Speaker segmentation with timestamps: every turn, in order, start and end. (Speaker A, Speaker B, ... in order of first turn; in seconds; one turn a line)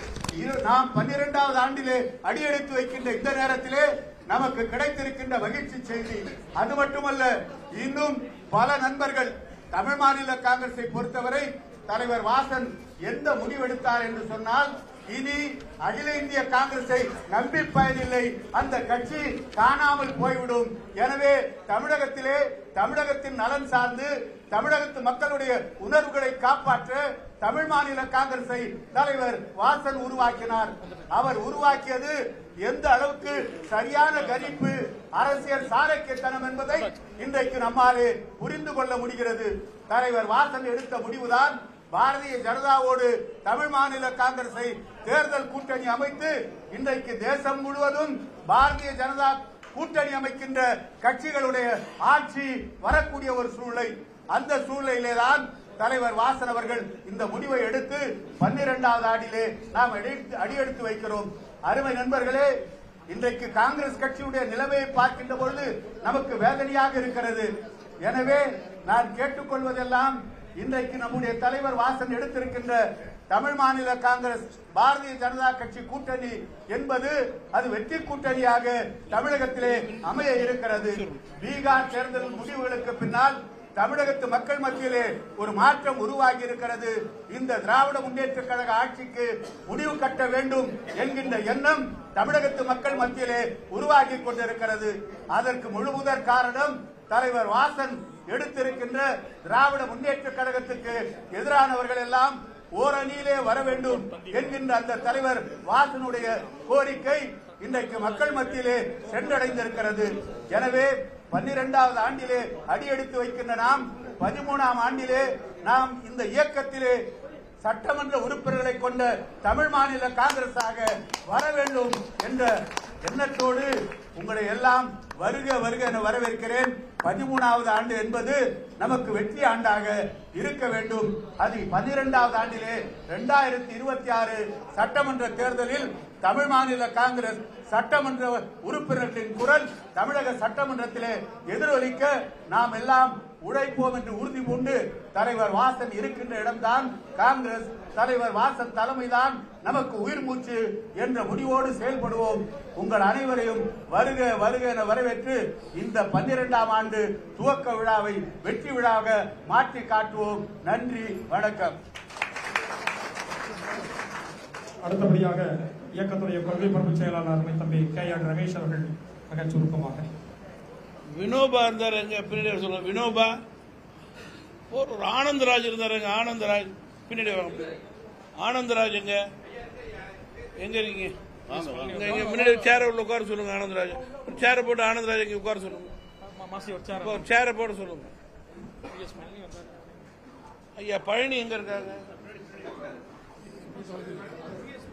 Speaker A: 0.4-62.5
Speaker A: 63.1-67.5
Speaker A: 68.1-72.8
Speaker A: 73.3-117.0
Speaker B: 79.8-81.2
Speaker A: 117.6-122.5
Speaker A: 123.0-161.8
Speaker C: 164.8-170.0
Speaker B: 171.1-173.3
Speaker B: 174.7-177.7
Speaker B: 178.4-179.2
Speaker B: 180.6-185.9
Speaker C: 181.7-182.3
Speaker C: 186.4-187.1
Speaker B: 187.0-188.1
Speaker C: 189.0-189.4
Speaker B: 190.8-192.0